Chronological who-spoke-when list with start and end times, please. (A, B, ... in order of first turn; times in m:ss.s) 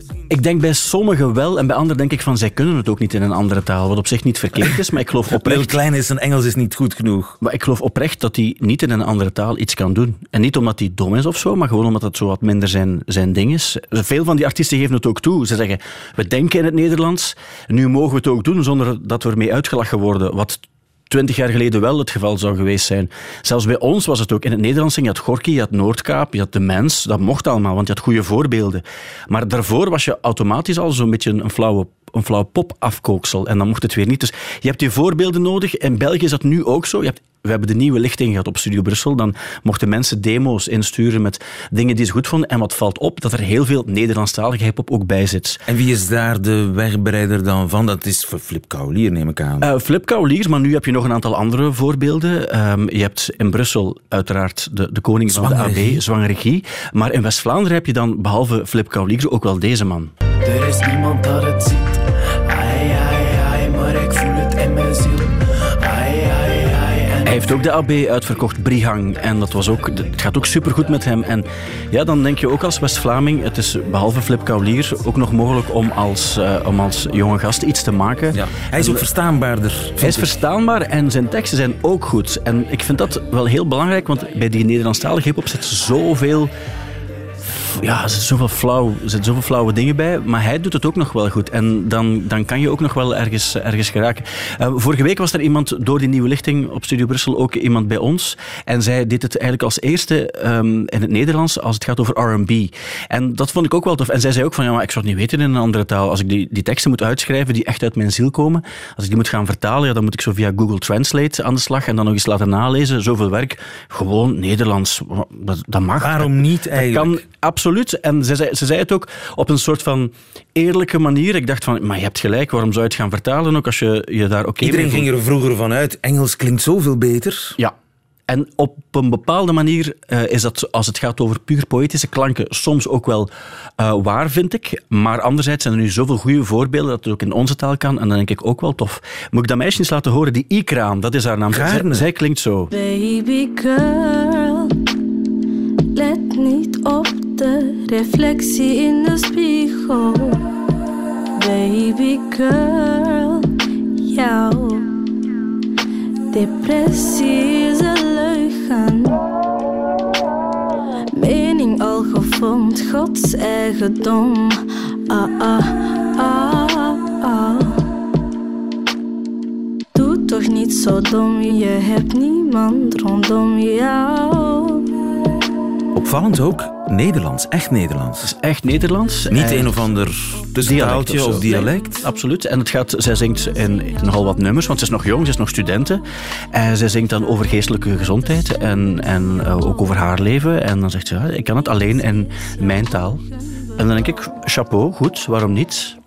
0:00.3-0:05.7 A
0:05.3-0:07.4 B
0:07.4-0:45.6 A
0:45.7-0:49.6 B
0:49.6-1:00.1 A
0:55.3-0:56.0 B
1:00.4-1:07.5 C
1:07.2-1:19.0 A
1:18.3-1:20.3 B
1:20.0-1:26.5 A
1:27.5-2:05.1 A
1:56.0-1:57.2 B
2:04.6-2:07.6 B
2:08.3-2:22.7 A
2:21.5-2:22.0 B
2:22.7-2:24.7 D
2:25.9-2:30.4 D
2:31.4-2:33.5 D
2:34.0-2:34.9 D
2:36.3-2:39.2 D
2:41.1-2:47.8 D
2:49.9-2:54.8 D
2:55.9-2:58.3 B
2:58.2-2:59.8 A
2:59.3-3:02.0 B
3:00.6-3:13.2 A
3:03.4-3:04.4 D
3:08.4-3:10.0 D
3:11.8-3:14.4 D
3:13.8-3:16.0 A